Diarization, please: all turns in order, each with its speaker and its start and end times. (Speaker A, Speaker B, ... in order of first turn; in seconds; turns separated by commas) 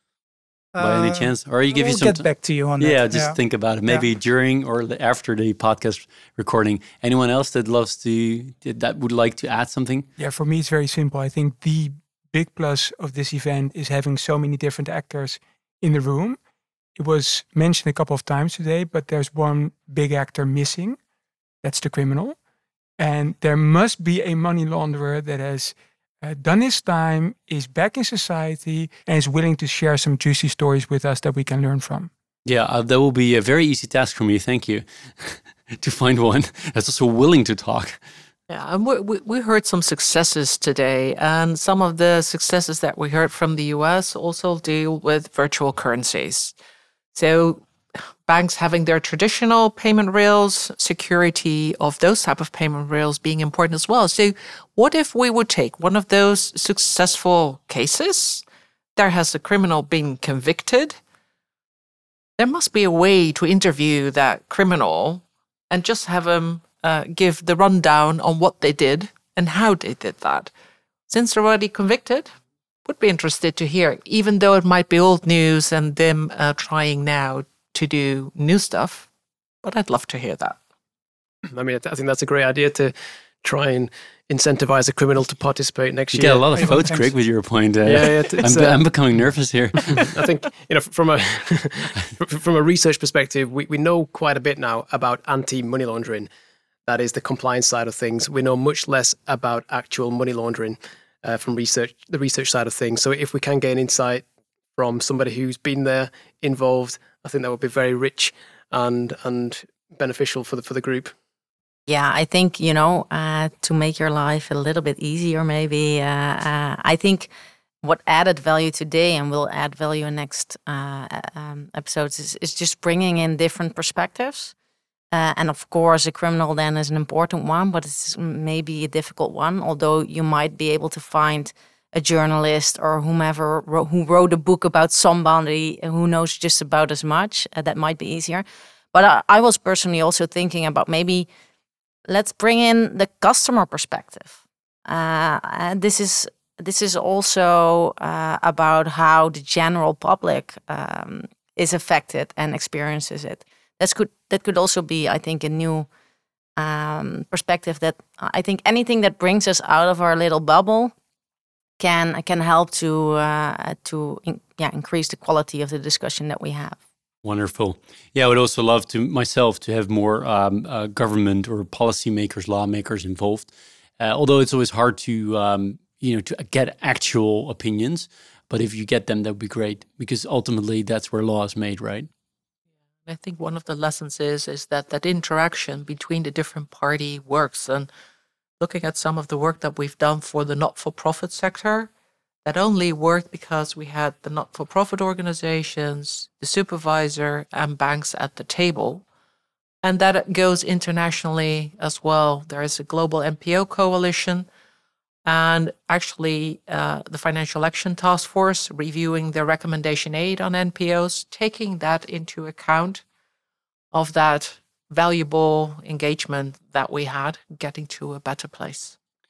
Speaker A: 0.7-4.0, Speaker B: 0.8-2.2, Speaker B: 2.8-10.1, Speaker C: 10.2-16.4, Speaker C: 17.0-21.0, Speaker C: 21.6-22.4, Speaker C: 23.0-32.1, Speaker B: 32.5-38.0, Speaker D: 38.5-46.5, Speaker D: 47.1-58.4, Speaker D: 59.0-61.0, Speaker D: 62.4-70.5, Speaker D: 71.1-72.3, Speaker D: 72.8-79.1, Speaker D: 79.6-80.6, Speaker E: 81.5-86.6, Speaker B: 86.1-90.1, Speaker A: 86.5-87.1, Speaker E: 87.8-88.8, Speaker E: 89.9-96.3, Speaker E: 96.8-111.1, Speaker F: 111.9-117.3, Speaker F: 117.8-124.5, Speaker F: 125.1-141.3, Speaker F: 142.1-155.9, Speaker F: 156.6-160.9, Speaker F: 161.8-166.8, Speaker B: 167.2-182.1, Speaker D: 183.1-187.9, Speaker D: 188.6-191.9, Speaker D: 192.4-199.0, Speaker D: 199.8-204.5, Speaker D: 205.2-213.0, Speaker D: 213.9-218.9